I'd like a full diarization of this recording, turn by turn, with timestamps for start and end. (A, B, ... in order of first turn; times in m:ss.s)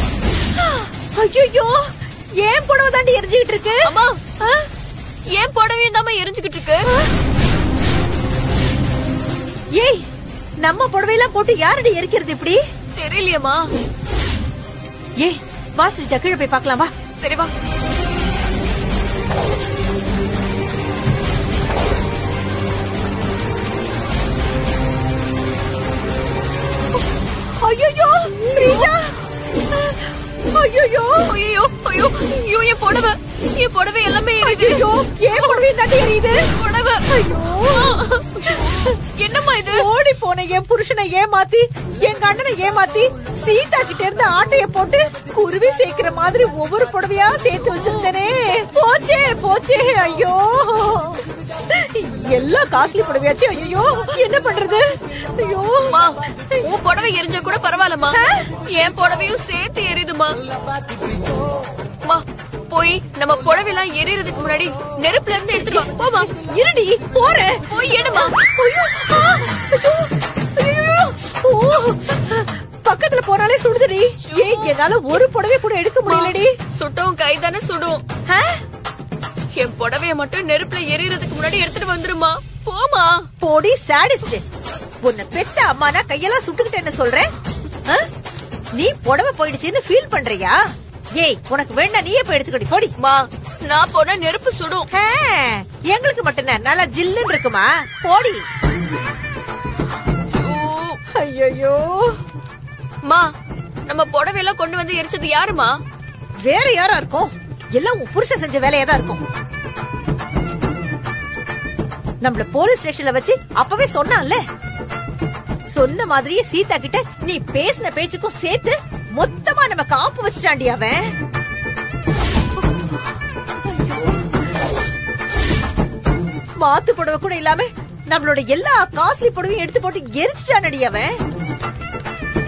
0:00.6-0:01.9 A
0:02.4-0:03.9 A
0:03.8-0:04.2 B
0:05.3-0:06.8 B
0:09.8-0:10.0 A
0:10.6-0:12.6 A
0:13.0-0:13.7 B
0:15.2-0:16.9 A
0:17.2-0:17.5 B
0:27.6-0:29.1 A
0:28.6-0:28.9 B
0:30.5-0:31.2 A
0:31.3-0:35.7 B
0:34.4-0:36.4 A
0:36.4-0:37.0 B
0:37.1-0:38.0 A
0:37.6-0:38.6 B
0:39.2-0:39.8 B
0:39.6-0:51.2 A
0:51.7-0:54.8 A
0:55.3-0:55.9 A
0:55.9-0:58.2 B
0:58.7-1:00.4 B
1:02.0-1:06.3 B
1:05.6-1:05.9 A
1:06.4-1:16.5 A
1:07.7-1:08.3 B
1:14.3-1:15.2 B
1:16.0-1:18.0 B
1:18.3-1:18.6 A
1:19.5-1:23.3 B
1:23.4-1:24.4 A
1:25.0-1:27.3 A
1:28.8-1:30.5 A
1:31.2-1:32.9 A
1:33.0-1:34.8 B
1:34.9-1:38.4 A
1:40.3-1:41.0 B
1:41.1-1:42.1 A
1:43.9-1:45.7 B
1:46.5-1:49.2 A
1:52.2-1:54.4 A
1:55.7-2:01.0 A
2:03.6-2:04.2 A
2:06.6-2:11.1 A